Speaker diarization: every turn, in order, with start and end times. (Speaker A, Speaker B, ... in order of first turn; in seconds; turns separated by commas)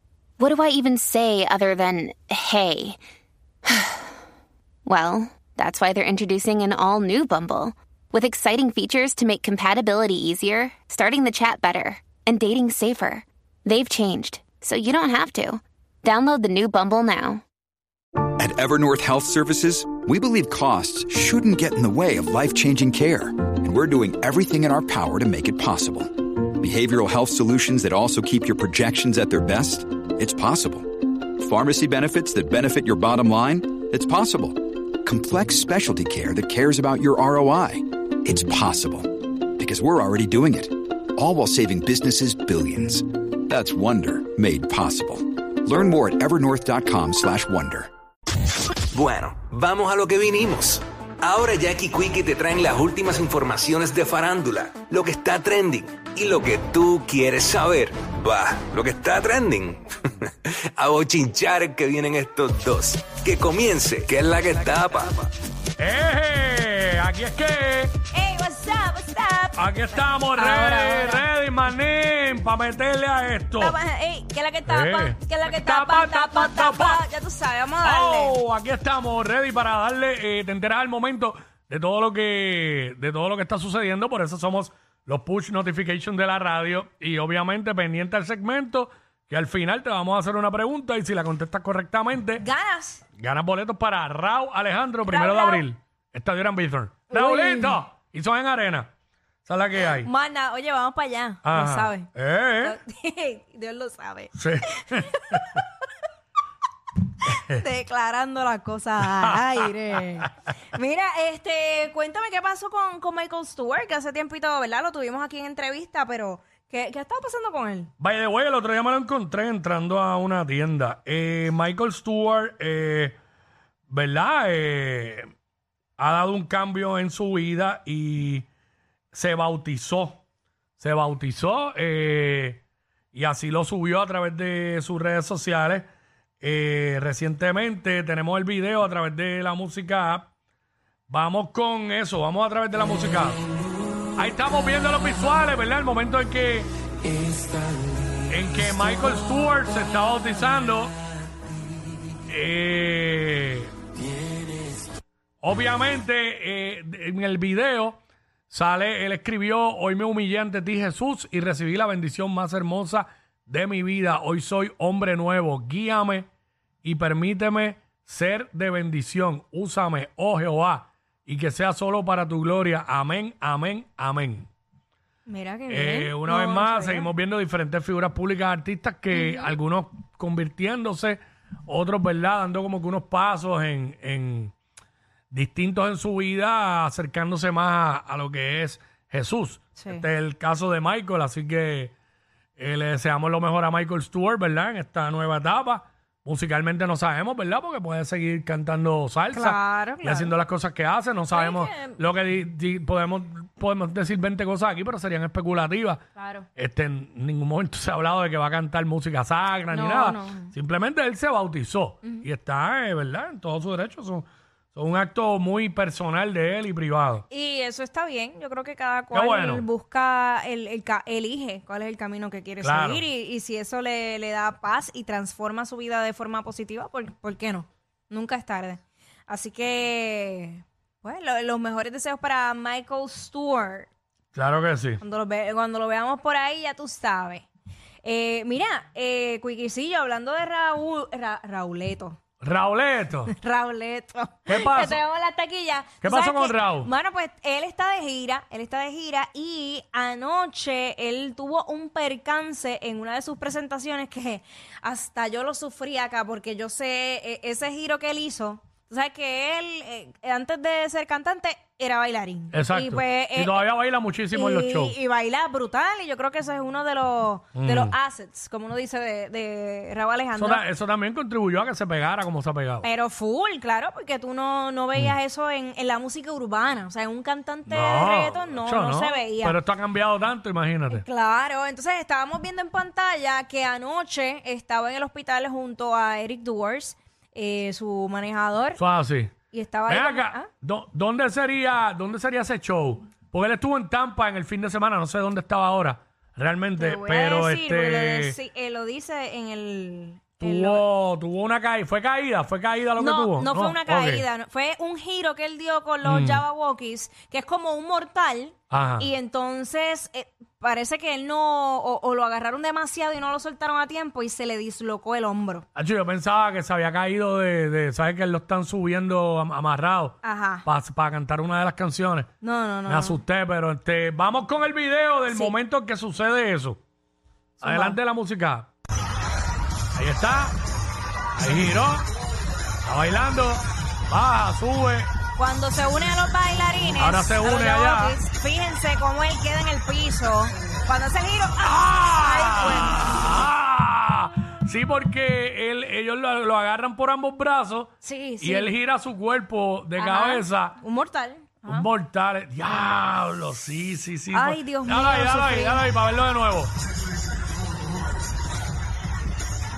Speaker A: 0.4-3.0, Speaker A: 3.6-4.1, Speaker A: 4.8-17.4, Speaker B: 18.4-47.9, Speaker C: 48.9-65.3, Speaker D: 65.8-67.9, Speaker E: 68.1-71.3, Speaker D: 69.6-73.8, Speaker E: 73.6-78.4, Speaker D: 74.7-77.0, Speaker D: 77.8-92.4, Speaker E: 92.4-93.0, Speaker D: 93.2-98.9, Speaker E: 95.0-95.6, Speaker E: 97.1-97.8, Speaker D: 99.4-100.1, Speaker E: 100.0-102.1, Speaker D: 101.4-102.8, Speaker E: 102.6-105.6, Speaker D: 104.3-105.6, Speaker E: 107.4-117.9, Speaker D: 109.2-109.7, Speaker D: 118.0-123.1, Speaker D: 123.9-125.3, Speaker D: 126.0-128.4, Speaker D: 129.1-130.2, Speaker D: 130.8-132.6, Speaker D: 133.1-135.9, Speaker D: 136.4-140.3, Speaker D: 141.1-143.4, Speaker D: 144.2-146.7, Speaker D: 148.3-150.9, Speaker D: 152.3-153.7, Speaker D: 155.4-158.0, Speaker D: 158.5-166.3, Speaker D: 166.8-174.5, Speaker E: 175.2-177.1, Speaker D: 175.7-184.5, Speaker E: 179.1-179.5, Speaker D: 185.3-191.9, Speaker E: 189.8-190.0, Speaker D: 192.6-206.0, Speaker E: 199.3-200.3, Speaker E: 201.3-202.0, Speaker E: 206.2-206.5, Speaker D: 206.6-217.2, Speaker E: 209.7-210.5, Speaker E: 217.3-233.9, Speaker D: 219.1-219.7, Speaker D: 222.6-223.1, Speaker D: 234.3-235.0, Speaker E: 235.0-237.5, Speaker E: 238.0-242.2, Speaker D: 242.4-243.3, Speaker E: 243.3-263.6, Speaker D: 244.5-245.0, Speaker D: 246.0-246.9, Speaker D: 262.5-265.0, Speaker E: 264.3-270.6, Speaker D: 267.6-267.9, Speaker D: 270.4-272.9, Speaker E: 272.8-279.6, Speaker D: 277.7-281.0, Speaker E: 280.9-288.8, Speaker D: 288.8-289.3, Speaker E: 289.5-290.5, Speaker D: 289.9-298.4, Speaker E: 296.8-300.8, Speaker D: 300.4-304.3, Speaker E: 303.0-315.6, Speaker D: 306.0-306.4, Speaker D: 308.7-309.1, Speaker D: 315.7-322.3, Speaker E: 320.2-320.6, Speaker E: 322.4-323.2, Speaker D: 322.9-326.8, Speaker E: 325.3-325.5, Speaker D: 327.6-328.7, Speaker E: 327.6-328.0, Speaker D: 329.9-330.6, Speaker D: 331.4-332.1, Speaker D: 332.8-335.1, Speaker E: 335.4-343.3, Speaker D: 337.0-338.2, Speaker D: 341.6-350.8, Speaker E: 348.0-348.7, Speaker E: 350.0-351.9, Speaker D: 351.6-356.7, Speaker E: 354.3-355.8